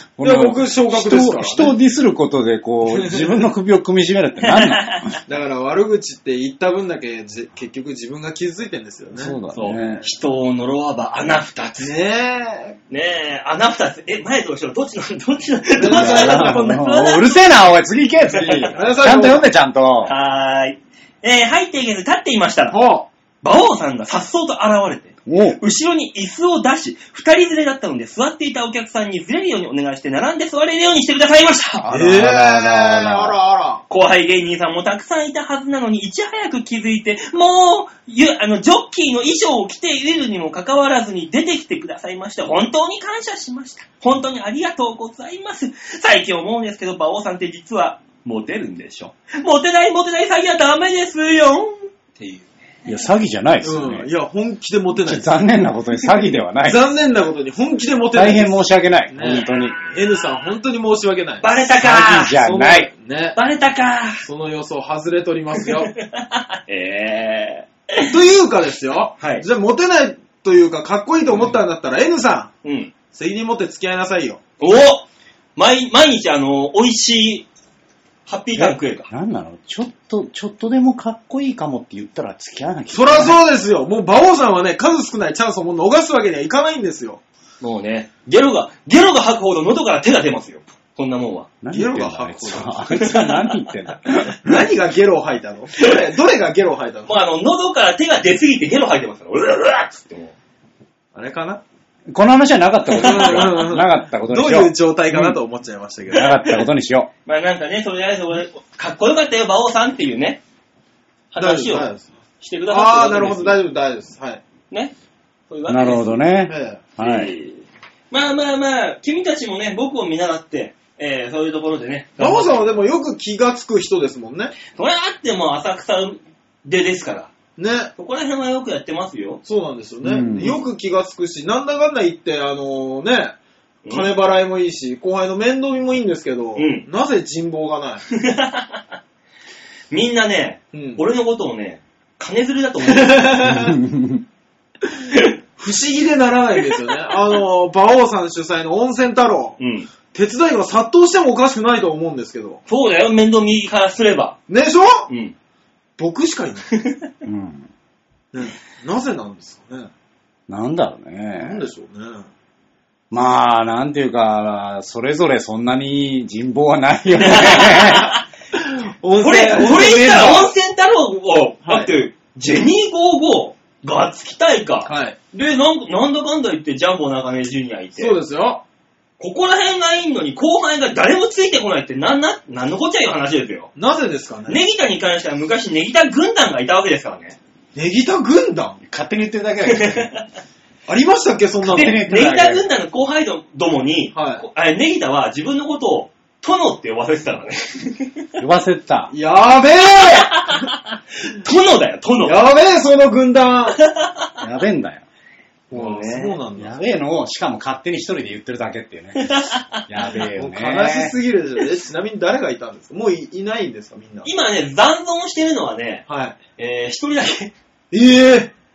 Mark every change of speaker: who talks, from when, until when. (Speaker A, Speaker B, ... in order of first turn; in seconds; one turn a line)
Speaker A: 0.2-5.1
Speaker B: 0.2-1.7
Speaker B: 2.9-3.3
Speaker C: 4.4-5.1
Speaker B: 5.3-9.3
Speaker A: 9.1-10.0
Speaker C: 9.5-11.9
Speaker B: 11.8-12.8
Speaker C: 12.9-17.4
Speaker B: 15.8-16.8
Speaker A: 15.9-20.1
Speaker C: 18.4-18.7
Speaker B: 18.6-19.5
Speaker C: 20.0-22.8
Speaker B: 22.7-23.1
Speaker C: 23.4-31.9
Speaker A: 25.3-25.6
Speaker A: 31.8-33.3
Speaker B: 31.9-33.8
Speaker C: 33.9-52.5
Speaker A: 52.9-54.1
Speaker B: 53.6-55.3
Speaker A: 55.0-56.9
Speaker B: 56.6-61.6
Speaker A: 58.1-59.8
Speaker C: 59.2-60.2
Speaker C: 61.4-62.4
Speaker A: 61.8-62.9
Speaker B: 62.3-63.4
Speaker C: 63.3-64.2
Speaker B: 64.2-65.9
Speaker C: 66.0-68.1
Speaker B: 68.0-72.5
Speaker C: 69.2-69.4
Speaker C: 72.6-72.9
Speaker B: 73.1-74.4
Speaker C: 74.6-77.5
Speaker C: 78.2-79.1
Speaker A: 78.5-83.4
Speaker B: 82.9-87.2
Speaker C: 87.6-91.5
Speaker A: 91.6-94.4
Speaker B: 91.7-93.0
Speaker C: 92.9-93.6
Speaker B: 94.4-97.2
Speaker C: 97.1-100.3
Speaker B: 101.1-101.6
Speaker A: 102.1-105.4
Speaker B: 102.9-106.3
Speaker C: 103.0-103.5
Speaker A: 106.1-107.1
Speaker C: 106.2-106.6
Speaker C: 107.2-110.4
Speaker C: 111.3-111.9
Speaker B: 111.4-112.1
Speaker C: 112.4-113.6
Speaker B: 112.7-114.4
Speaker C: 115.5-116.2
Speaker A: 115.7-117.3
Speaker B: 116.5-116.9
Speaker C: 117.0-122.8
Speaker B: 122.2-124.6
Speaker C: 124.7-127.3
Speaker B: 127.6-127.9
Speaker C: 128.0-129.4
Speaker B: 129.4-133.4
Speaker A: 130.0-130.6
Speaker B: 133.9-138.0
Speaker C: 136.6-136.8
Speaker C: 138.1-138.8
Speaker C: 139.9-143.6
Speaker B: 140.7-141.0
Speaker B: 142.9-143.7
Speaker A: 143.4-144.2
Speaker B: 144.9-149.6
Speaker C: 149.6-149.9
Speaker B: 150.1-152.6
Speaker C: 152.7-154.4
Speaker B: 154.5-155.1
Speaker C: 155.1-155.3
Speaker B: 156.0-156.7
Speaker C: 156.7-157.1
Speaker A: 157.2-157.7
Speaker B: 158.3-159.9
Speaker A: 160.5-161.7
Speaker B: 161.4-162.3
Speaker A: 163.1-168.1
Speaker C: 167.2-168.2
Speaker B: 167.7-170.5
Speaker C: 169.2-178.2
Speaker A: 169.6-170.4
Speaker B: 171.6-171.9
Speaker B: 174.8-175.2
Speaker B: 178.0-178.6
Speaker C: 179.2-183.7
Speaker B: 183.8-184.6
Speaker C: 184.5-187.3
Speaker B: 187.7-188.8
Speaker A: 188.8-190.1
Speaker C: 189.7-190.2
Speaker B: 190.9-192.0
Speaker A: 191.6-192.6
Speaker C: 191.7-198.2
Speaker B: 194.1-194.4
Speaker A: 198.4-199.1
Speaker B: 199.1-200.7
Speaker C: 200.1-202.4
Speaker B: 202.2-203.8
Speaker C: 203.8-204.2
Speaker A: 204.4-205.0
Speaker C: 205.7-206.4
Speaker B: 205.7-206.7
Speaker A: 206.6-211.1
Speaker C: 209.2-209.8
Speaker B: 210.1-214.3
Speaker C: 214.2-216.0
Speaker B: 216.1-216.4
Speaker C: 216.6-217.5
Speaker B: 217.9-218.5